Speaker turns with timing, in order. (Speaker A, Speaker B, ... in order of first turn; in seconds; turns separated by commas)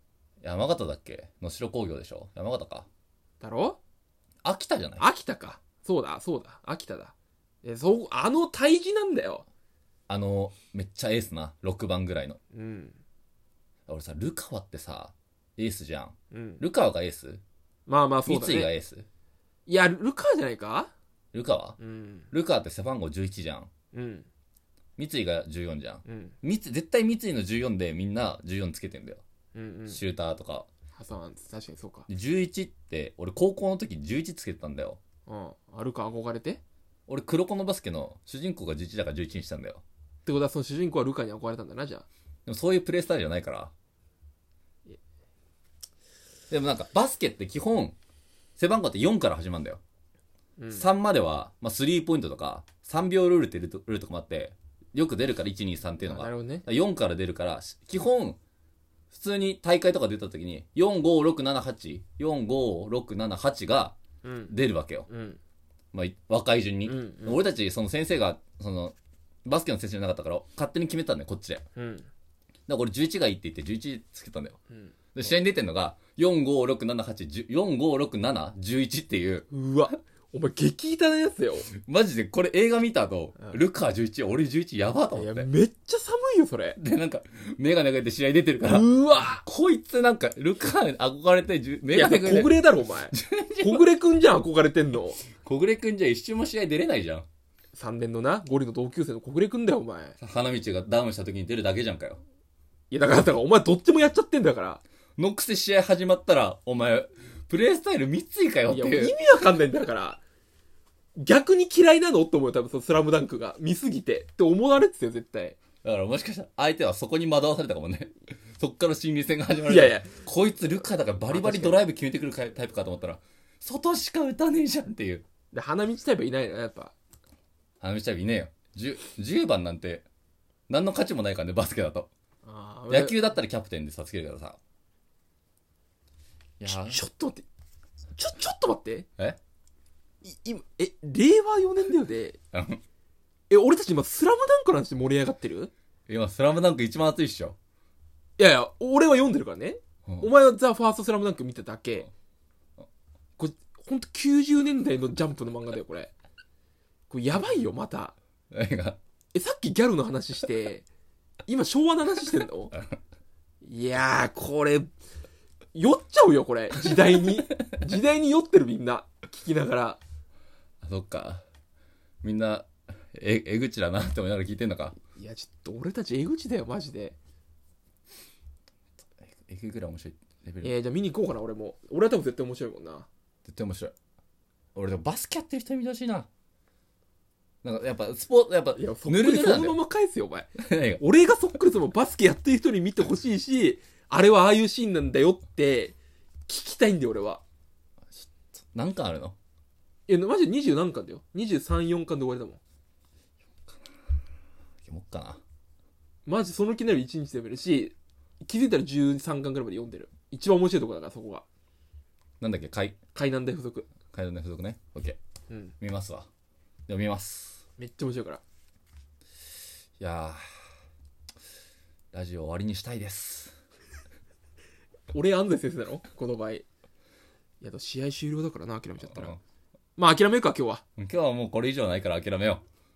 Speaker A: 0.4-2.9, Speaker B: 3.4-3.8, Speaker A: 4.4-5.1, Speaker B: 5.0-9.5, Speaker A: 10.1-12.4, Speaker B: 12.5-13.0, Speaker A: 13.9-17.4, Speaker B: 16.3-16.6, Speaker B: 17.9-18.7, Speaker A: 18.2-19.1, Speaker B: 19.7-20.9, Speaker A: 21.3-21.8, Speaker B: 21.8-22.3, Speaker A: 22.3-23.7, Speaker B: 23.9-24.3, Speaker A: 25.0-29.2, Speaker B: 26.1-26.3, Speaker B: 29.5-30.0, Speaker A: 29.9-30.7, Speaker B: 30.9-32.1, Speaker A: 32.1-35.0, Speaker B: 35.3-36.6, Speaker A: 37.1-39.8, Speaker B: 40.3-42.1, Speaker A: 42.5-43.7, Speaker A: 46.5-48.0, Speaker A: 48.6-49.8, Speaker B: 50.6-50.9, Speaker A: 50.7-58.4, Speaker B: 56.0-56.7, Speaker A: 59.1-64.0, Speaker B: 64.2-64.5, Speaker A: 64.5-65.1, Speaker B: 65.1-65.4, Speaker A: 65.9-71.6, Speaker B: 66.9-67.4, Speaker B: 71.8-72.1, Speaker A: 72.7-74.6, Speaker A: 75.2-79.5, Speaker B: 79.5-81.7, Speaker A: 81.7-85.5, Speaker B: 85.1-86.8, Speaker A: 86.8-92.5, Speaker B: 88.6-89.4, Speaker B: 91.9-95.2, Speaker A: 93.1-93.9, Speaker A: 95.4-97.3, Speaker B: 97.8-100.2, Speaker A: 100.2-102.2, Speaker B: 102.9-104.8, Speaker A: 105.2-109.2, Speaker B: 108.7-110.2, Speaker B: 111.2-115.6, Speaker A: 115.8-125.2, Speaker B: 119.7-120.1, Speaker B: 121.3-121.8, Speaker B: 125.5-126.9, Speaker A: 127.8-130.1, Speaker A: 130.7-132.1, Speaker B: 132.4-133.2, Speaker A: 132.9-134.6, Speaker A: 136.6-137.0, Speaker B: 136.7-137.4, Speaker B: 138.2-139.1, Speaker B: 140.2-142.4, Speaker A: 142.5-142.8, Speaker B: 143.5-145.7, Speaker A: 146.1-147.6, Speaker B: 148.4-152.1, Speaker B: 153.4-156.1, Speaker B: 157.1-158.2, Speaker A: 158.5-159.0, Speaker B: 159.3-160.9, Speaker B: 161.5-162.7, Speaker B: 163.6-164.9, Speaker B: 165.8-170.0, Speaker A: 166.9-167.3, Speaker A: 170.8-171.4, Speaker A: 172.2-174.9, Speaker B: 175.2-177.2, Speaker A: 179.2-180.8, Speaker B: 180.6-183.1, Speaker A: 183.4-183.9, Speaker A: 184.8-186.3, Speaker A: 187.6-189.8, Speaker B: 188.8-195.9, Speaker A: 190.6-191.0, Speaker B: 196.5-197.4, Speaker A: 198.2-199.4, Speaker B: 200.1-202.6, Speaker A: 204.8-205.4, Speaker B: 206.2-211.4, Speaker A: 212.4-213.0, Speaker B: 213.2-213.9, Speaker A: 214.1-215.2, Speaker A: 215.8-216.3, Speaker A: 216.9-217.6, Speaker B: 217.8-218.4, Speaker A: 220.0-220.4, Speaker A: 222.1-223.6, Speaker B: 225.1-226.7, Speaker B: 227.6-229.3, Speaker A: 229.0-229.4, Speaker B: 230.0-230.8, Speaker A: 231.0-232.6